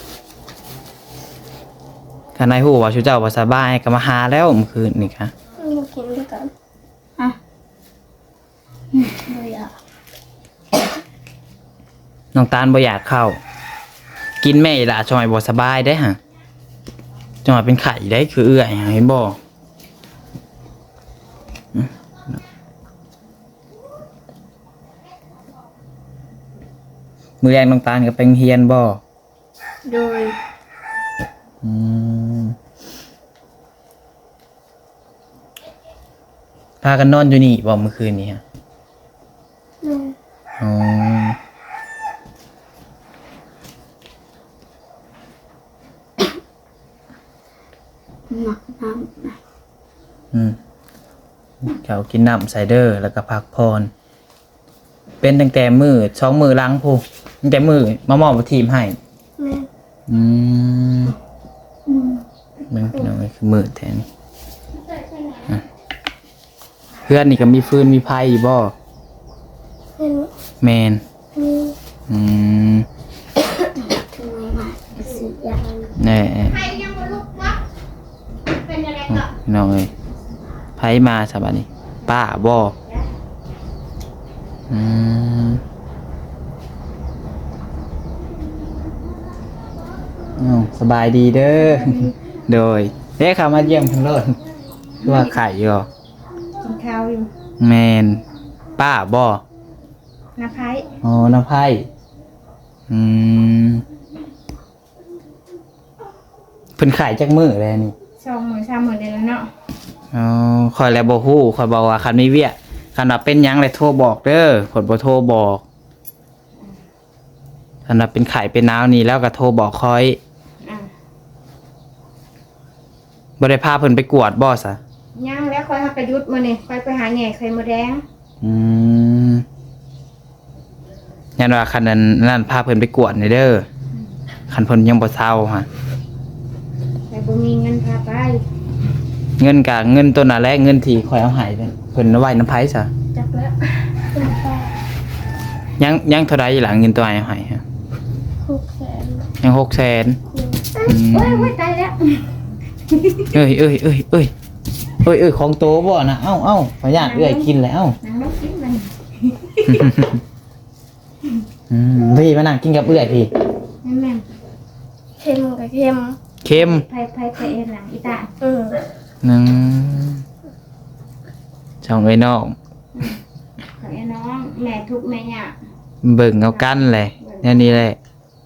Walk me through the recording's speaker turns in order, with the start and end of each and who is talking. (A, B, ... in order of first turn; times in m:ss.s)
0:02.4-0:05.3 A
0:05.6-0:06.5 B
0:08.9-0:09.7 B
0:12.3-0:13.4 A
0:14.4-0:16.2 A
0:17.4-0:19.4 A
0:27.4-0:29.0 A
0:29.8-0:30.4 B
0:31.6-0:32.6 A
0:36.8-0:38.4 A
0:39.8-0:40.2 B
0:40.6-0:41.4 A
0:48.3-0:49.4 B
0:50.3-0:50.6 A
0:51.6-0:53.9 A
0:55.2-0:59.0 A
0:59.4-0:59.7 B
1:00.1-1:01.1 A
1:01.9-1:02.2 B
1:02.7-1:04.1 A
1:07.0-1:08.7 A
1:10.0-1:10.3 B
1:10.6-1:11.0 A
1:11.3-1:11.8 B
1:12.1-1:12.9 A
1:13.5-1:15.9 B
1:16.0-1:16.6 A
1:16.5-1:17.6 C
1:18.5-1:19.3 C
1:19.1-1:19.9 A
1:20.8-1:22.7 A
1:24.7-1:25.6 A
1:30.4-1:34.4 A
1:31.6-1:32.1 C
1:35.0-1:35.9 A
1:36.6-1:37.3 C
1:37.6-1:38.2 A
1:38.8-1:39.4 A
1:40.4-1:40.9 C
1:41.0-1:41.8 A
1:42.9-1:43.8 A
1:46.8-1:47.9 A
1:48.2-1:49.5 C
1:50.1-1:55.6 A
1:57.9-2:00.2 A
2:00.6-2:00.9 C
2:03.4-2:04.8 A
2:05.1-2:08.0 C
2:08.4-2:09.4 A
2:11.4-2:13.7 A
2:14.5-2:15.7 A
2:17.1-2:18.4 C
2:19.4-2:22.9 A
2:23.2-2:23.6 B
2:24.1-2:24.8 B
2:25.8-2:27.6 A
2:28.4-2:29.3 B
2:29.4-2:30.2 A
2:30.3-2:30.9 B
2:30.9-2:31.5 A
2:30.9-2:32.3 C
2:32.9-2:33.3 C
2:33.3-2:34.3 A
2:35.0-2:38.0 A
2:36.9-2:37.5 C
2:38.0-2:39.9 C
2:39.6-2:40.2 A
2:41.7-2:43.3 A
2:43.8-2:44.2 C
2:45.2-2:46.2 B
2:46.4-2:46.8 A
2:46.5-2:48.3 C
2:48.4-2:48.8 B
2:49.2-2:50.2 A
2:51.8-2:52.6 A
2:53.8-2:55.6 C
2:56.0-2:58.0 A
2:56.5-2:57.8 C